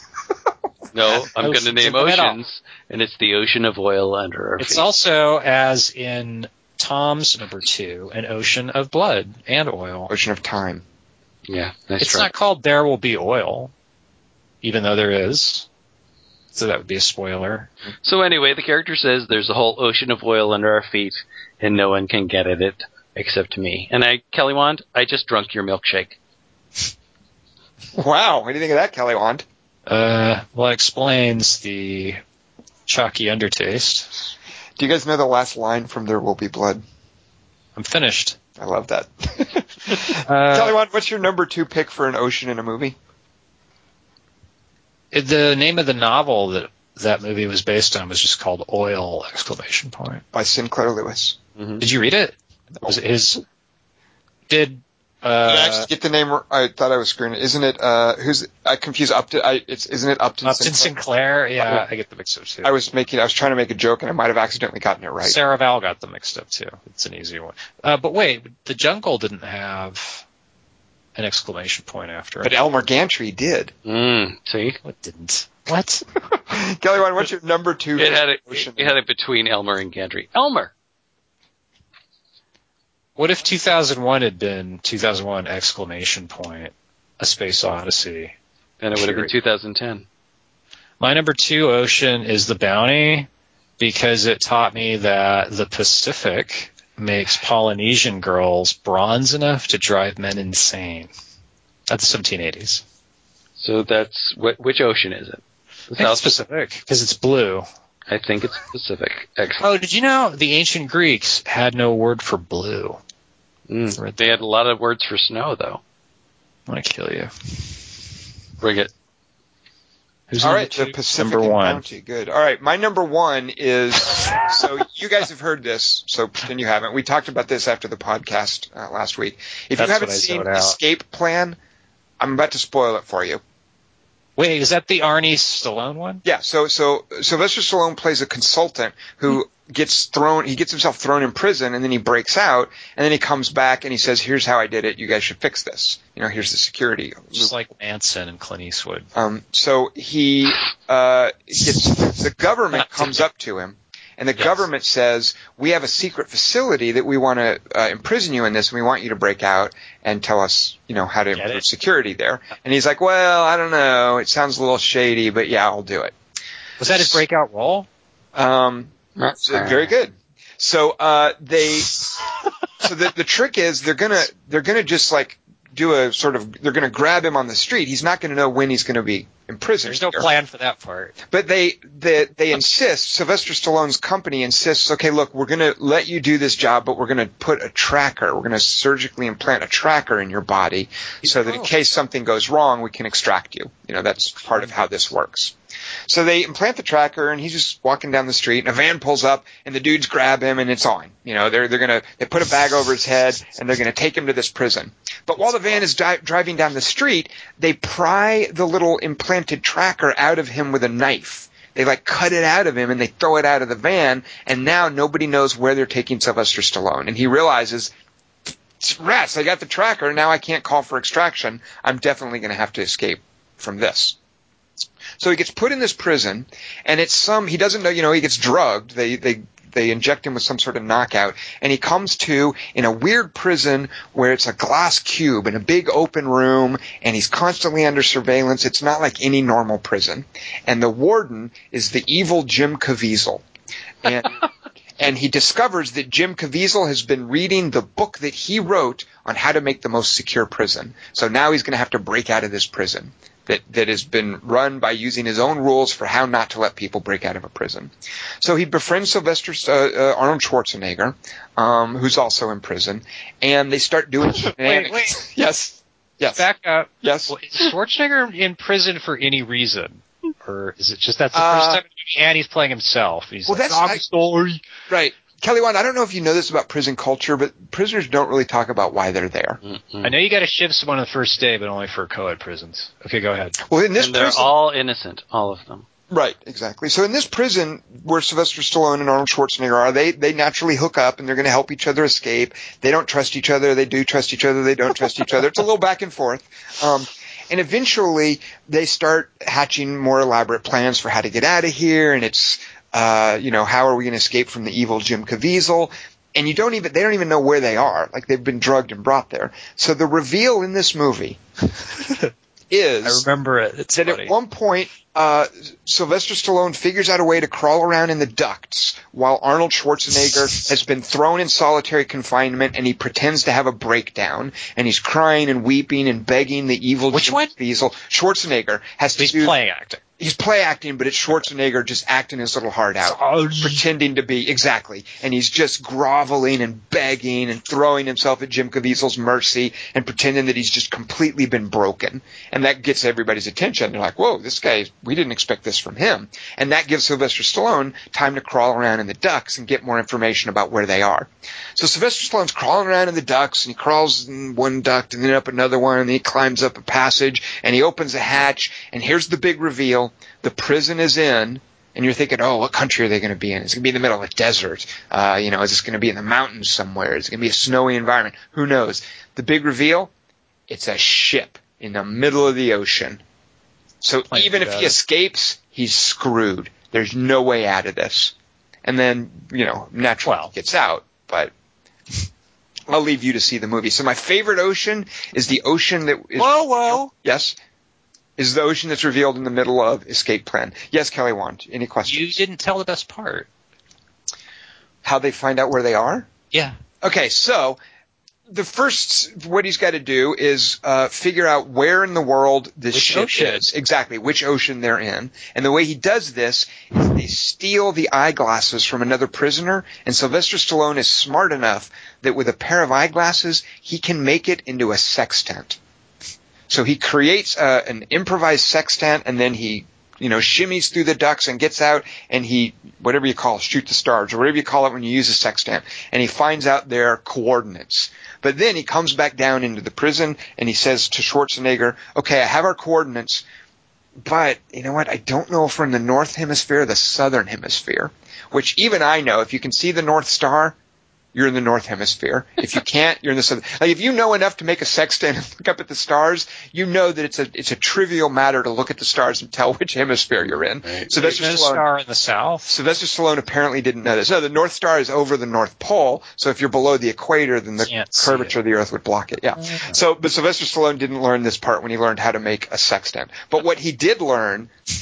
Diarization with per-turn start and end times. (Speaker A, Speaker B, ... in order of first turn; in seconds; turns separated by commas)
Speaker A: 0.9-4.8, Speaker B: 1.4-2.4, Speaker B: 4.6-10.1, Speaker C: 10.1-10.8, Speaker A: 11.5-12.3, Speaker B: 12.0-13.7, Speaker B: 14.6-15.7, Speaker B: 16.5-17.7, Speaker A: 18.0-26.2, Speaker C: 27.9-29.4, Speaker B: 29.9-32.2, Speaker B: 32.9-34.1, Speaker C: 34.8-36.8, Speaker B: 37.8-38.4, Speaker C: 38.6-43.0, Speaker B: 40.1-40.8, Speaker B: 45.1-50.2, Speaker C: 50.3-51.4, Speaker B: 51.8-53.4, Speaker B: 54.5-55.9, Speaker C: 55.5-60.9, Speaker B: 60.4-62.7, Speaker C: 62.6-65.4, Speaker B: 65.2-70.2, Speaker B: 71.2-72.5, Speaker C: 72.4-73.7, Speaker A: 73.8-74.8, Speaker B: 74.8-76.0, Speaker C: 76.5-79.0, Speaker A: 78.0-80.7, Speaker B: 83.2-88.3, Speaker A: 88.8-90.0, Speaker B: 88.9-89.3, Speaker B: 91.0-101.1, Speaker B: 101.9-102.8, Speaker A: 103.6-106.3, Speaker B: 106.0-107.7, Speaker A: 108.1-109.6, Speaker B: 109.6-113.0, Speaker A: 113.7-115.8, Speaker B: 114.0-114.4, Speaker B: 116.7-117.9, Speaker A: 118.6-118.9, Speaker B: 120.3-121.8, Speaker C: 120.4-131.6, Speaker B: 129.8-130.8, Speaker C: 132.2-133.4, Speaker B: 134.4-136.2, Speaker C: 136.2-147.5, Speaker B: 147.3-149.1, Speaker C: 149.1-166.1, Speaker B: 161.3-161.6, Speaker B: 166.8-167.9, Speaker C: 166.9-167.2, Speaker C: 168.3-172.0, Speaker A: 169.5-169.9, Speaker C: 172.8-180.3, Speaker B: 179.8-181.2, Speaker C: 181.3-195.5, Speaker B: 191.2-191.7, Speaker B: 194.3-195.0, Speaker C: 196.1-217.9, Speaker C: 218.8-224.2, Speaker C: 225.2-243.4, Speaker C: 244.0-244.4, Speaker C: 245.0-266.4, Speaker B: 264.4-265.2, Speaker B: 266.3-274.6, Speaker C: 267.0-267.4, Speaker C: 271.3-271.8, Speaker C: 273.5-274.0, Speaker C: 274.9-279.6, Speaker A: 279.6-280.1, Speaker B: 280.0-283.6, Speaker C: 283.6-284.5, Speaker A: 284.0-285.8, Speaker C: 286.1-311.4, Speaker C: 312.7-313.2, Speaker B: 313.0-314.3, Speaker C: 313.9-329.5, Speaker B: 327.1-327.5, Speaker B: 329.1-330.0, Speaker C: 330.2-370.1, Speaker B: 333.0-333.8, Speaker C: 370.7-373.2, Speaker C: 374.0-378.3, Speaker B: 374.3-375.0, Speaker C: 378.8-381.5, Speaker B: 380.2-380.5, Speaker C: 382.9-387.6, Speaker B: 386.4-387.1, Speaker C: 388.4-392.4, Speaker B: 392.0-393.5, Speaker C: 395.0-396.3, Speaker C: 397.0-397.8, Speaker C: 398.5-415.8, Speaker B: 402.9-403.7, Speaker C: 416.7-433.4, Speaker C: 434.2-440.8, Speaker C: 441.3-451.8, Speaker A: 450.8-451.1, Speaker B: 451.1-452.7, Speaker C: 452.7-464.7, Speaker B: 457.8-458.5, Speaker B: 459.6-459.9